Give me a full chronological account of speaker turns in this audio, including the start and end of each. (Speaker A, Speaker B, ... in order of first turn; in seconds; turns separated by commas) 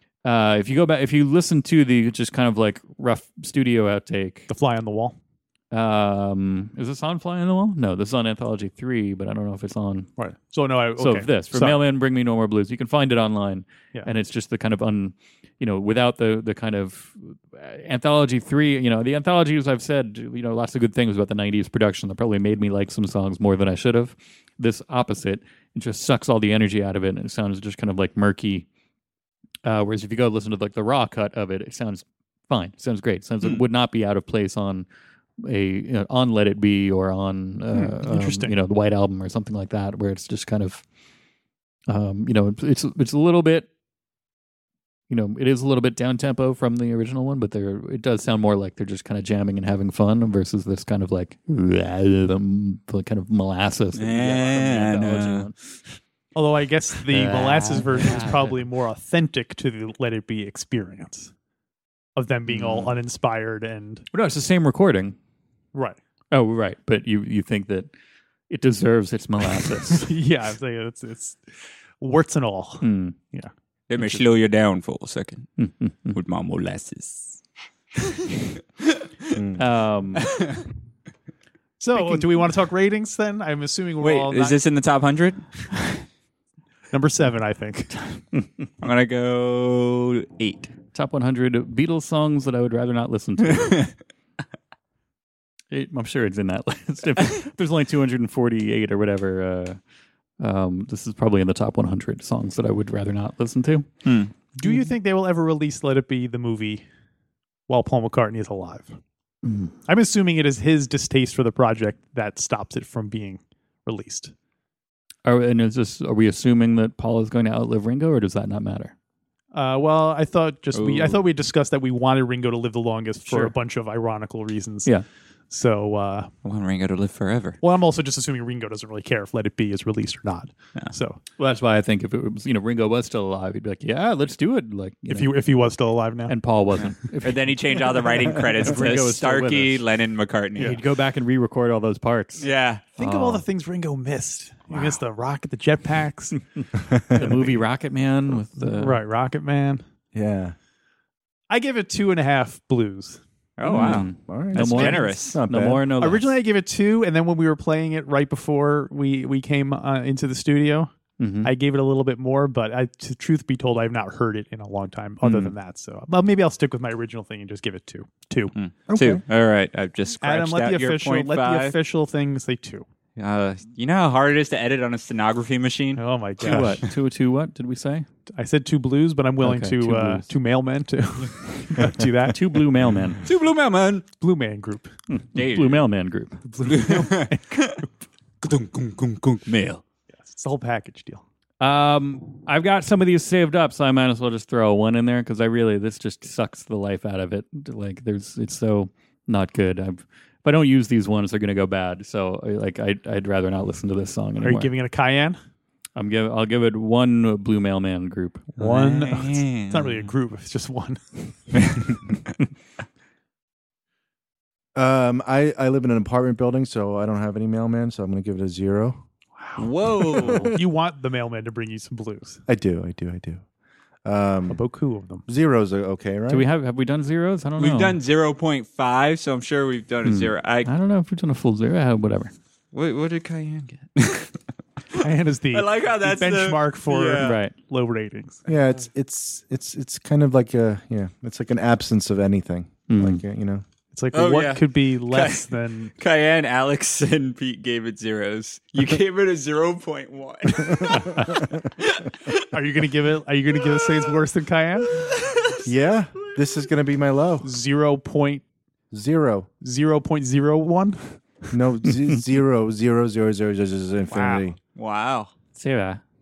Speaker A: 0.2-4.5, Speaker B: 4.5-5.2, Speaker A: 5.7-10.1, Speaker B: 10.2-11.8, Speaker A: 11.0-28.7, Speaker A: 29.6-34.9, Speaker A: 35.4-40.8, Speaker B: 37.7-38.5, Speaker A: 41.9-43.7, Speaker A: 45.1-55.6, Speaker C: 54.0-55.5, Speaker B: 56.4-61.3, Speaker A: 57.1-58.6, Speaker B: 62.2-64.1, Speaker A: 62.5-63.0, Speaker A: 64.1-65.2, Speaker A: 66.3-67.9, Speaker A: 68.5-70.1, Speaker B: 69.9-71.4, Speaker B: 72.0-73.5, Speaker A: 72.8-73.2, Speaker C: 73.9-75.5, Speaker A: 75.6-76.2, Speaker C: 76.1-77.4, Speaker C: 78.0-79.4, Speaker D: 79.3-79.6, Speaker A: 79.6-80.3, Speaker C: 80.2-80.6, Speaker B: 81.8-84.6, Speaker C: 84.0-85.8, Speaker B: 86.9-88.0, Speaker C: 88.8-90.7, Speaker A: 90.9-93.8, Speaker C: 93.5-93.9, Speaker A: 95.7-99.8, Speaker A: 100.4-103.9, Speaker C: 104.0-104.3, Speaker B: 104.6-106.8, Speaker B: 107.7-109.0, Speaker A: 109.4-109.7, Speaker B: 109.9-114.3, Speaker A: 115.2-118.9, Speaker B: 119.5-124.9, Speaker C: 120.7-121.2, Speaker A: 123.3-123.5, Speaker B: 125.5-126.3, Speaker C: 126.4-127.6, Speaker B: 127.6-131.2, Speaker A: 131.4-135.3, Speaker B: 135.1-136.3, Speaker A: 136.3-139.8, Speaker C: 136.8-140.8, Speaker A: 140.6-143.4, Speaker C: 142.4-142.8, Speaker B: 143.0-146.4, Speaker D: 146.8-147.2, Speaker A: 147.1-149.0, Speaker B: 148.6-149.8, Speaker D: 150.1-150.6, Speaker B: 151.5-153.2, Speaker C: 153.6-155.4, Speaker A: 153.7-156.3, Speaker D: 153.7-155.8, Speaker B: 154.8-155.1, Speaker B: 156.0-160.9, Speaker A: 161.2-161.5, Speaker B: 161.4-168.5, Speaker A: 165.2-165.5, Speaker C: 168.6-171.8, Speaker D: 168.9-169.2, Speaker B: 170.2-172.9, Speaker C: 173.2-176.7, Speaker B: 176.0-176.9, Speaker A: 176.4-178.1, Speaker B: 178.3-182.7, Speaker A: 179.4-180.3, Speaker A: 182.3-183.2, Speaker C: 183.2-184.1, Speaker B: 184.2-184.9, Speaker A: 185.1-186.4, Speaker C: 185.3-185.8, Speaker B: 186.4-187.6, Speaker C: 186.6-187.8, Speaker C: 188.4-189.8, Speaker B: 190.2-191.2, Speaker A: 191.6-204.7, Speaker B: 204.4-205.4, Speaker A: 206.0-208.5, Speaker B: 208.6-211.6, Speaker C: 208.6-210.0, Speaker D: 214.8-219.0, Speaker B: 219.4-219.7, Speaker C: 219.6-220.6, Speaker D: 220.2-220.6, Speaker B: 220.2-222.4, Speaker D: 222.5-223.4, Speaker D: 224.1-224.6, Speaker B: 224.5-225.2, Speaker D: 225.3-226.4, Speaker A: 226.3-228.0, Speaker C: 227.6-230.7, Speaker A: 230.1-232.3, Speaker C: 232.7-237.3, Speaker B: 235.0-238.4, Speaker A: 237.2-237.5, Speaker D: 238.5-243.6, Speaker A: 242.9-243.2, Speaker B: 243.9-245.9, Speaker C: 244.1-252.4, Speaker D: 250.7-251.3, Speaker A: 250.9-251.4, Speaker B: 252.5-255.1, Speaker C: 253.7-254.0, Speaker C: 254.9-255.7, Speaker D: 255.6-257.5, Speaker B: 257.4-258.4, Speaker D: 258.9-259.5, Speaker B: 259.6-261.2, Speaker D: 261.5-264.6, Speaker B: 264.1-264.5, Speaker C: 264.8-265.3, Speaker A: 265.6-266.0